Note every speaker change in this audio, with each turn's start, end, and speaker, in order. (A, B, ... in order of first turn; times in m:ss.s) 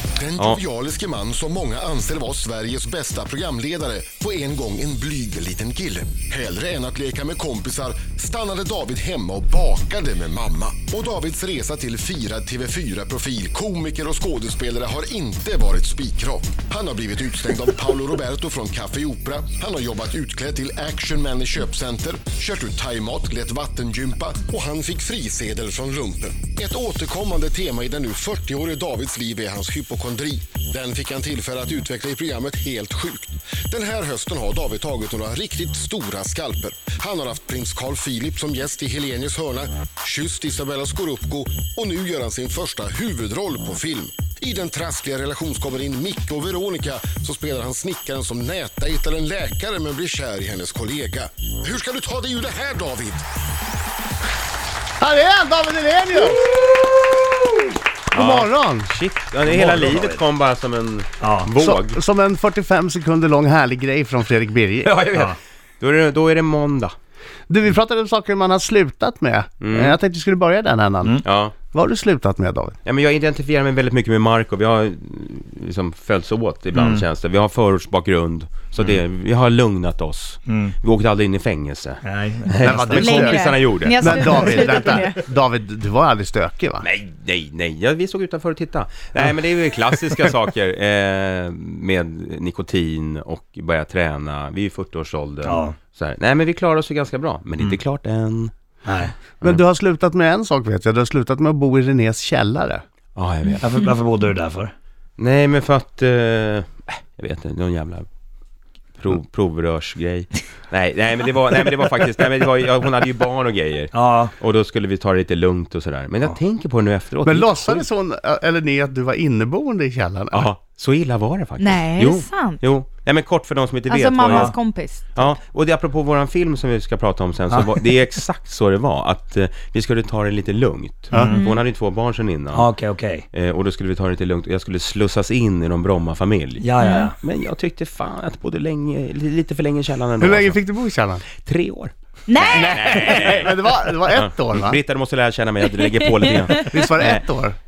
0:00.2-0:53.2 A
0:00.4-0:00.6 B
0:55.0-0:56.4 C
0:58.1-1:02.0 B
0:58.1-0:58.9 C
0:59.4-1:00.2 D
1:01.2-1:01.5 D
1:01.6-1:05.0 C
1:04.8-1:07.0 B
1:07.5-1:12.8 C
1:09.6-1:10.0 B
1:11.2-1:11.6 B
1:12.8-1:24.7 B
1:16.7-1:17.0 D
1:20.5-1:20.7 D
1:22.0-1:23.1 D
1:22.6-1:26.9 C
1:23.0-1:25.2 E
1:26.8-1:38.5 B
1:35.4-1:35.8 D
1:38.9-1:39.1 D
1:39.4-1:42.8 C
1:43.2-1:43.6 B
1:43.6-1:44.7 D
1:45.2-1:48.1 B
1:49.0-1:57.9 B
1:53.9-1:54.3 D
1:57.2-2:00.5 C
2:00.3-2:04.6 B
2:01.6-2:02.6 E
2:03.9-2:05.2 E
2:04.3-2:04.5 D
2:05.1-2:12.7 B
2:11.2-2:11.6 E
2:12.5-2:13.3 D
2:13.3-2:20.6 B
2:16.6-2:17.2 D
2:16.8-2:17.1 E
2:20.2-2:21.2 C
2:21.4-2:27.2 B
2:22.3-2:23.4 E
2:22.6-2:24.8 C
2:25.8-2:26.4 E
2:26.5-2:27.6 C